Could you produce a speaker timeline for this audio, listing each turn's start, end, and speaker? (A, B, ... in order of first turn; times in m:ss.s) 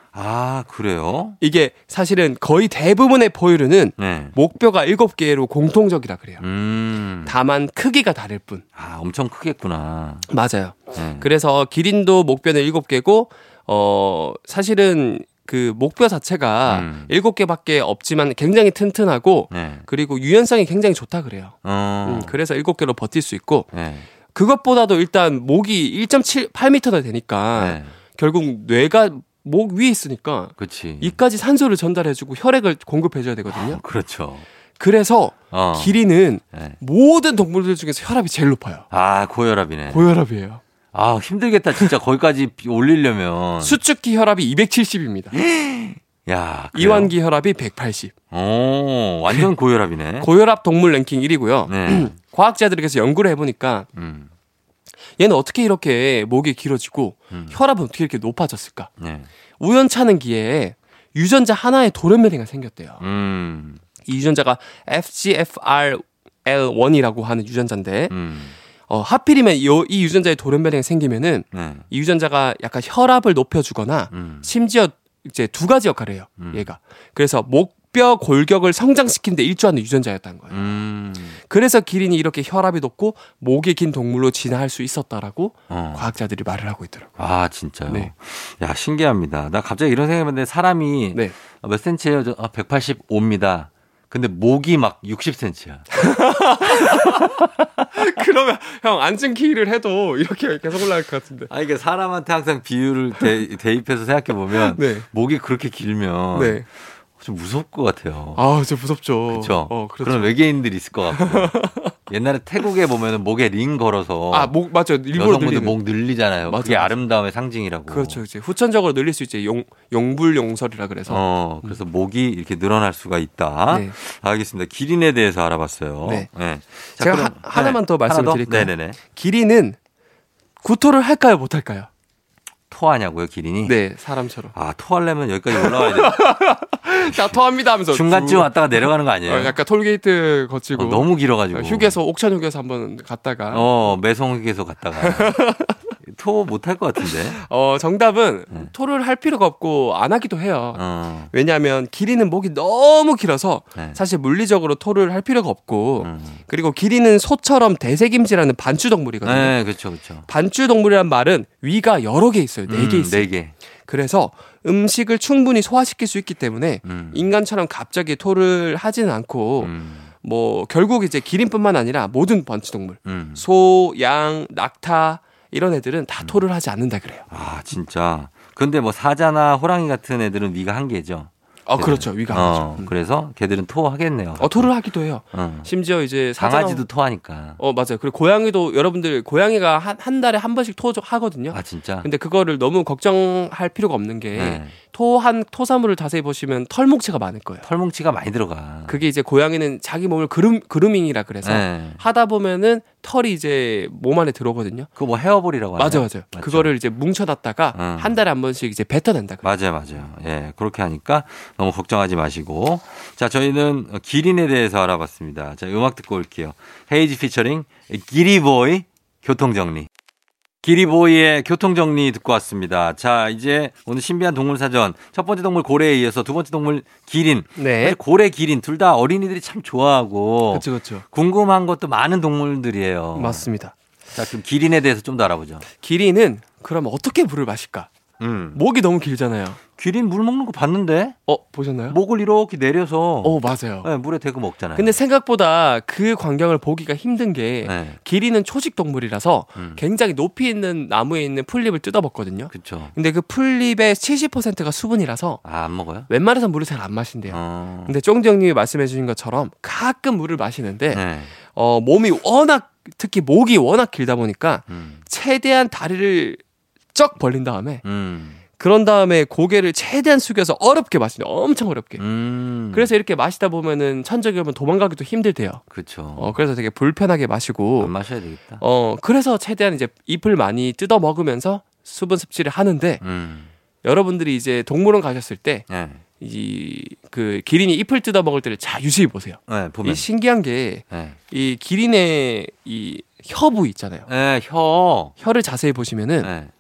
0:00.1-0:01.4 A
0:01.4-0:06.4 B
0:04.0-0:04.4 A
0:06.4-0:07.4 A
0:07.2-0:08.6 B
0:08.8-0:10.3 A
0:10.3-0:23.7 B
0:10.9-0:11.3 A
0:16.7-0:17.1 A
0:19.5-0:19.9 A
0:21.6-0:22.4 A
0:23.7-0:24.1 A
0:24.3-0:33.8 B
0:27.6-0:27.9 A
0:30.6-0:31.2 A
0:33.5-0:34.5 A
0:34.8-0:38.9 B
0:35.5-0:36.0 A
0:36.5-0:36.8 A
0:38.9-0:40.0 A
0:39.9-0:40.6 B
0:40.9-0:43.8 A
0:43.6-0:45.4 B
0:45.3-0:47.1 A
0:46.7-0:48.1 B
0:48.3-0:50.3 A
0:50.2-0:53.9 B
0:51.7-0:52.1 A
0:54.0-0:54.3 A
0:55.2-0:58.9 B
0:57.3-0:57.6 A
0:59.0-0:59.3 A
0:59.6-1:03.0 B
1:03.0-1:03.8 A
1:04.0-1:08.1 B
1:08.1-1:08.6 A
1:08.9-1:20.6 B
1:11.5-1:11.9 A
1:14.1-1:14.5 A
1:16.4-1:16.7 A
1:20.5-1:21.4 A
1:21.4-1:27.2 B
1:25.7-1:26.1 A
1:27.2-1:35.9 A
1:35.9-1:41.5 B
1:36.7-1:37.4 A
1:41.5-1:48.4 A
1:44.6-1:45.1 B
1:46.3-1:46.6 B
1:48.4-1:50.3 B
1:49.3-1:51.6 A
1:51.1-1:52.0 B
1:52.1-1:54.6 A
1:54.3-1:55.8 B
1:55.1-1:58.2 A
1:56.5-1:57.0 B
1:57.9-2:01.8 B
2:01.1-2:09.0 A
2:03.7-2:04.0 B
2:07.0-2:09.8 B
2:10.6-2:11.9 B
2:12.7-2:13.8 A
2:13.6-2:14.5 B
2:14.5-2:16.3 A
2:15.5-2:23.7 B
2:17.0-2:19.6 A
2:20.8-2:22.0 A
2:23.5-2:25.4 A
2:25.0-2:25.8 B
2:26.0-2:27.4 A
2:27.0-2:39.6 B
2:30.8-2:31.3 A
2:36.0-2:36.4 A
2:39.2-2:40.3 A
2:40.3-2:43.3 B
2:42.7-2:43.5 A
2:43.9-2:57.3 B
2:46.8-2:47.2 A
2:49.6-2:50.1 A
2:53.0-2:53.5 A
2:57.3-3:04.7 A
3:01.7-3:02.9 B
3:04.4-3:06.8 B
3:05.3-3:05.7 A
3:06.4-3:07.6 A
3:07.6-3:17.7 B
3:11.5-3:12.1 A
3:14.4-3:14.7 A
3:17.6-3:19.0 A
3:18.9-3:24.9 B
3:21.4-3:22.0 A
3:25.0-3:26.7 A
3:25.8-3:29.5 B
3:27.8-3:28.2 A
3:29.4-3:39.9 A
3:40.6-3:53.5 A
3:47.6-3:48.0 B
3:50.5-3:51.0 B
3:53.2-3:53.7 B
3:54.1-3:55.7 A
3:55.7-3:57.9 B
3:58.2-3:58.6 A
3:58.5-3:59.6 B
3:59.8-4:01.2 A
4:01.3-4:02.0 B
4:01.9-4:05.0 A
4:03.2-4:03.9 B
4:04.8-4:15.4 B
4:07.6-4:08.0 A
4:09.6-4:09.8 A
4:12.5-4:12.9 A
4:15.4-4:16.1 A
4:16.1-4:26.4 B
4:17.3-4:18.0 A
4:20.9-4:21.3 A
4:24.7-4:25.0 A
4:26.9-4:27.8 B
4:27.8-4:28.4 A
4:28.6-4:32.0 B
4:32.0-4:32.9 A
4:32.7-4:35.6 B
4:35.7-4:36.4 A
4:36.2-4:37.9 B
4:37.8-4:38.6 A
4:38.6-4:43.0 B
4:43.0-4:43.5 A
4:43.8-4:45.7 B
4:45.7-4:46.0 A
4:46.2-4:54.1 B
4:49.5-4:50.1 A
4:50.9-4:51.2 A
4:54.1-4:55.2 A
4:55.2-4:56.3 B
4:56.2-4:56.5 A